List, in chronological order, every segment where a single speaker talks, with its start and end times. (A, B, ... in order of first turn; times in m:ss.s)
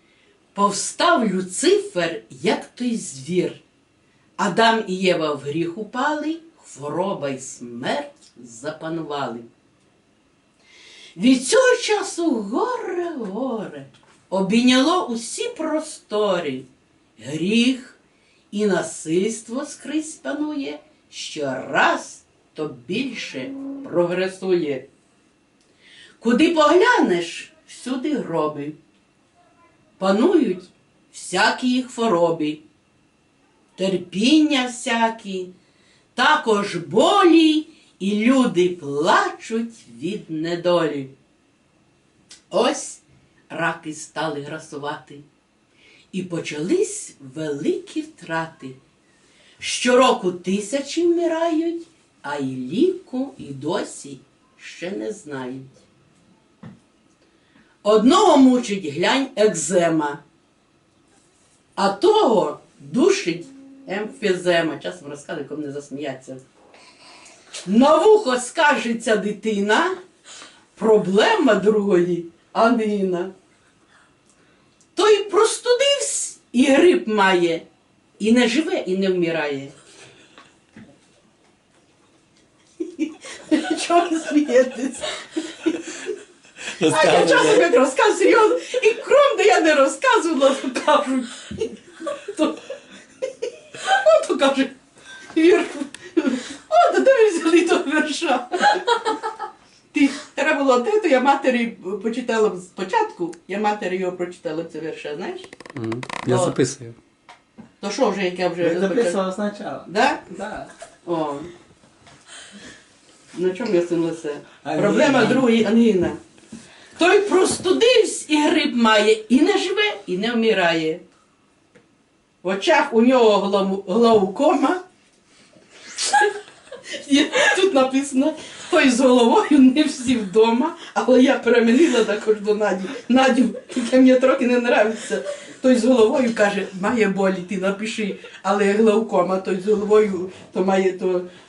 0:00.5-0:03.6 A
0:04.4-0:09.5 A
0:11.2-0:18.0 A
0:18.5-0:24.8 A
0:26.2-0:28.8 A
0:30.0-0:32.6 A
0:33.8-0:35.5 A
0:36.2-0:41.1 A
0:42.5-0:45.2 A
0:46.1-0:48.8 A
0:49.6-0:55.8 A
0:57.8-1:00.2 A
1:01.8-1:06.4 A
1:07.6-1:10.0 A
1:10.8-1:13.3 A
1:15.0-1:17.6 A
1:18.2-1:19.8 A
1:22.8-1:26.0 A
1:26.8-1:27.7 B
1:26.8-1:32.6 A
1:33.8-1:34.7 A
1:35.3-1:39.2 A
1:39.9-1:45.5 A
1:45.8-1:47.0 B
1:46.2-1:46.6 A
1:47.8-1:49.2 A
1:48.6-1:50.7 C
1:49.9-1:50.2 A
1:51.0-1:51.5 A
1:53.3-1:56.2 A
1:54.6-1:55.4 C
1:57.0-2:01.0 A
2:02.4-2:04.8 A
2:06.0-2:06.3 A
2:06.9-2:21.3 A